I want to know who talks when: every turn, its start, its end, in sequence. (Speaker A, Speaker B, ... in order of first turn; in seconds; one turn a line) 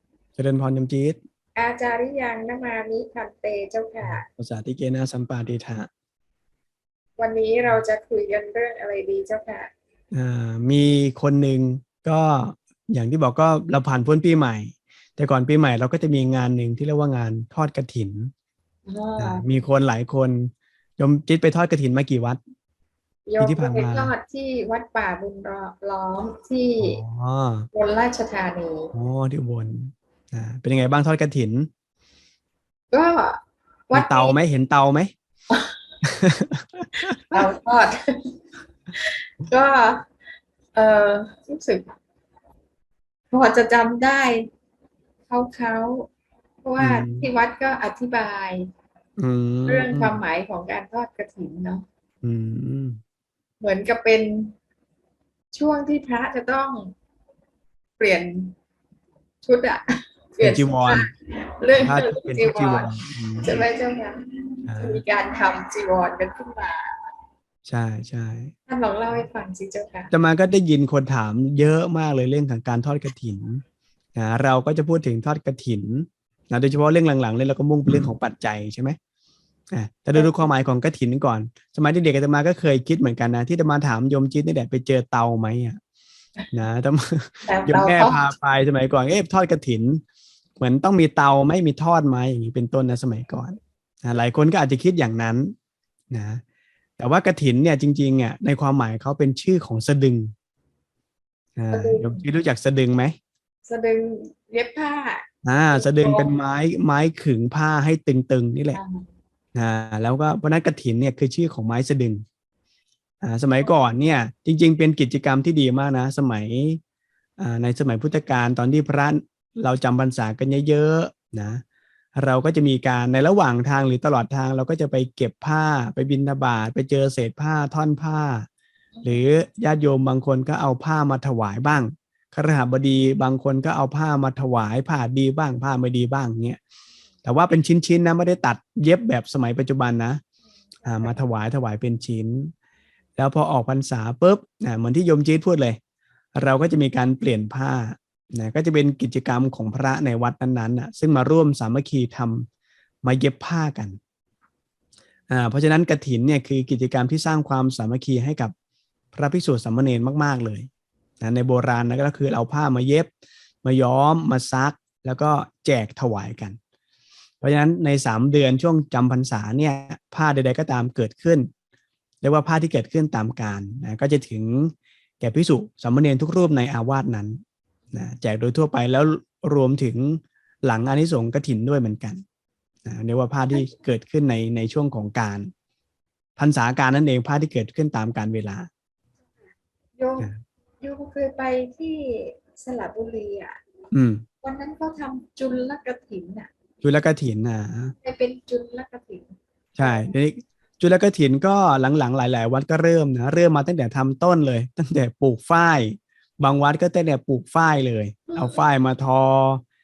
Speaker A: 0.4-1.2
Speaker B: 1.6-4.3
Speaker A: 4.0-5.9
Speaker B: 7.2-9.7
Speaker A: 10.1-18.3
Speaker B: 18.9-19.4
Speaker A: 19.2-22.4
Speaker B: 23.3-27.0
Speaker A: 23.4-24.1
Speaker A: 26.8-27.7
Speaker B: 27.7-28.9
Speaker A: 28.9-31.7
Speaker B: 32.9-33.4
Speaker B: 33.9-34.4
Speaker A: 33.9-35.1
Speaker A: 36.1-37.4
Speaker B: 37.3-38.0
Speaker B: 38.9-40.0
Speaker B: 40.7-42.0
Speaker B: 43.3-44.5
Speaker B: 45.3-46.1
Speaker B: 46.6-48.7
Speaker A: 46.8-47.3
Speaker A: 49.2-50.2
Speaker B: 49.7-51.9
Speaker A: 52.2-53.0
Speaker B: 53.6-54.5
Speaker B: 55.5-56.9
Speaker B: 58.0-58.5
Speaker B: 59.4-62.9
Speaker A: 60.4-61.1
Speaker A: 61.8-63.6
Speaker B: 63.4-66.9
Speaker A: 64.7-65.0
Speaker A: 67.7-68.5
Speaker B: 68.7-70.1
Speaker A: 70.1-73.6
Speaker A: 74.2-79.0
Speaker A: 79.7-85.8
Speaker B: 80.1-80.5
Speaker A: 86.5-90.0
Speaker B: 87.5-88.3
Speaker A: 90.6-95.5
Speaker A: 96.1-96.4
Speaker A: 97.0-100.3
Speaker A: 101.6-103.1
Speaker B: 101.7-102.2
Speaker B: 103.7-106.3
Speaker A: 105.5-108.8
Speaker B: 108.7-109.1
Speaker A: 109.5-112.2
Speaker A: 113.2-116.8
Speaker A: 117.4-121.6
Speaker A: 122.2-128.5
Speaker B: 129.0-129.2
Speaker A: 129.0-136.6
Speaker A: 137.2-140.2
Speaker A: 140.8-142.5
Speaker A: 143.2-145.8
Speaker A: 146.4-152.5
Speaker A: 153.0-154.0
Speaker A: 155.3-158.5
Speaker A: 159.1-160.7
Speaker A: 161.2-163.1
Speaker A: 163.6-166.6
Speaker A: 167.4-171.5
Speaker A: 172.2-177.4
Speaker A: 177.9-182.2
Speaker A: 182.8-185.5
Speaker A: 186.4-188.7
Speaker B: 190.0-190.3
Speaker B: 190.8-193.6
Speaker A: 193.9-194.2
Speaker B: 194.4-196.5
Speaker A: 196.8-197.9
Speaker B: 198.0-200.1
Speaker A: 199.8-209.6
Speaker B: 208.3-208.6